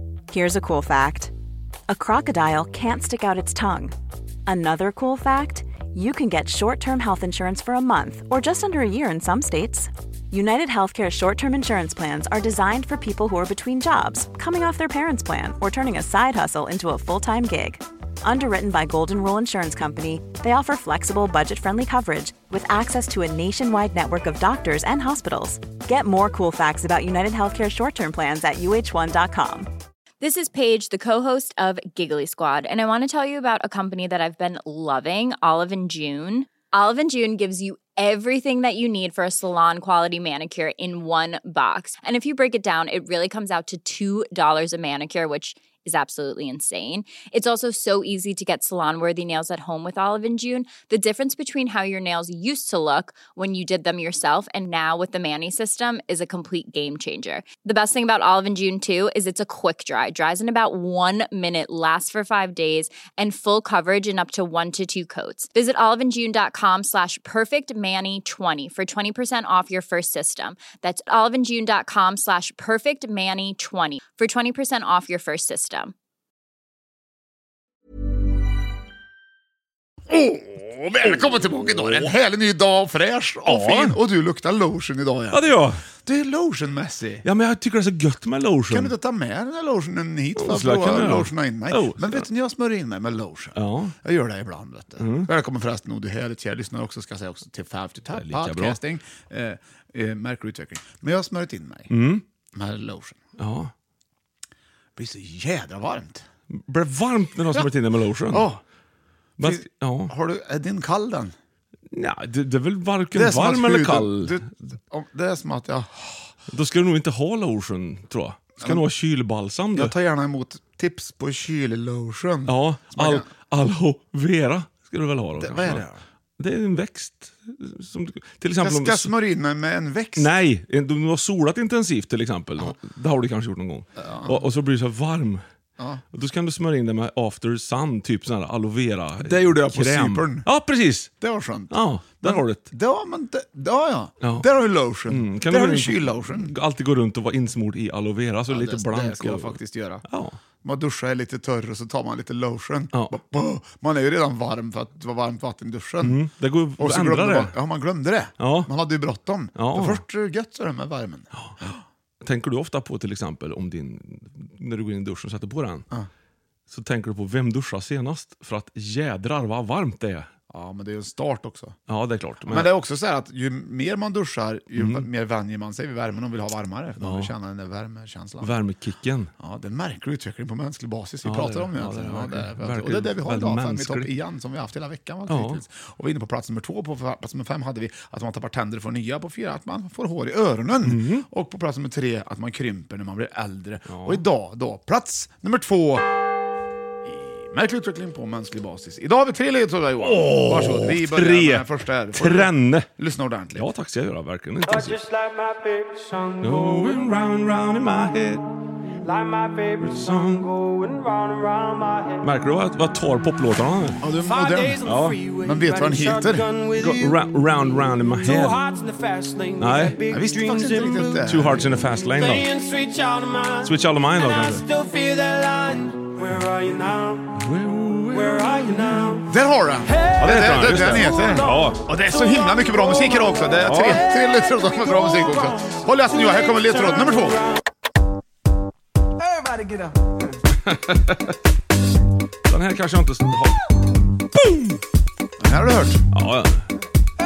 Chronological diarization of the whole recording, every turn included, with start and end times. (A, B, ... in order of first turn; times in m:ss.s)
0:00.3-0:01.3 A
0:01.9-0:03.9 A
0:04.5-0:29.7 A
0:30.2-1:15.9 B
1:20.1-1:25.5 C
1:21.7-1:22.1 D
1:23.4-1:24.0 D
1:25.3-1:25.9 D
1:26.0-1:27.2 C
1:27.2-1:28.9 D
1:28.7-1:41.9 C
1:30.4-1:32.2 D
1:33.5-1:34.0 D
1:35.0-1:35.3 D
1:38.1-1:38.8 D
1:41.9-1:42.2 D
1:42.5-1:43.2 C
1:43.4-1:43.7 D
1:45.0-1:46.2 C
1:46.5-1:48.5 D
1:48.3-1:48.6 C
1:49.4-1:50.1 D
1:49.4-1:51.3 C
1:51.9-1:54.5 D
1:53.1-1:56.3 C
1:56.5-1:59.9 D
1:59.7-2:03.2 C
2:02.4-2:05.8 D
2:05.4-2:06.0 C
2:06.4-2:09.1 D
2:08.6-2:10.3 C
2:10.2-2:15.4 D
2:14.0-2:14.4 C
2:15.8-2:16.0 C
2:16.1-2:21.1 D
2:19.2-2:20.5 C
2:21.2-2:26.5 C
2:21.7-2:22.7 D
2:24.2-2:24.5 D
2:25.0-2:30.4 D
2:28.5-2:30.0 C
2:30.6-2:36.2 C
2:36.0-2:37.5 D
2:36.8-2:41.8 C
2:38.4-2:38.7 D
2:39.5-2:40.0 D
2:42.2-2:45.8 D
2:46.7-2:50.3 D
2:50.5-2:51.7 C
2:51.9-2:52.7 D
2:52.4-2:58.5 C
2:54.7-2:55.1 D
2:57.0-2:57.3 D
2:58.4-2:59.3 D
2:59.4-3:16.0 C
3:01.2-3:04.1 D
3:05.3-3:05.6 D
3:10.8-3:11.3 D
3:13.9-3:14.2 D
3:17.0-3:23.7 C
3:20.0-3:22.9 D
3:23.5-3:25.0 D
3:24.9-3:26.3 E
3:26.4-3:28.5 D
3:29.1-3:29.8 E
3:29.8-3:30.6 D
3:30.6-3:32.1 E
3:32.2-3:34.0 D
3:34.0-3:34.8 C
3:34.3-3:37.1 E
3:34.8-3:35.2 D
3:35.4-3:36.5 C
3:36.7-3:38.6 D
3:38.2-3:41.0 E
3:39.6-3:40.0 D
3:40.1-3:41.7 C
3:41.2-3:42.5 D
3:42.2-3:43.7 E
3:43.6-3:44.6 D
3:44.2-3:47.2 E
3:47.4-3:48.6 D
3:48.1-3:49.2 E
3:49.3-3:57.4 C
3:50.2-3:51.8 D
3:53.6-3:54.0 D
4:00.6-4:01.3 D
4:02.5-4:03.6 D
4:05.4-4:06.0 C
4:06.1-4:06.7 D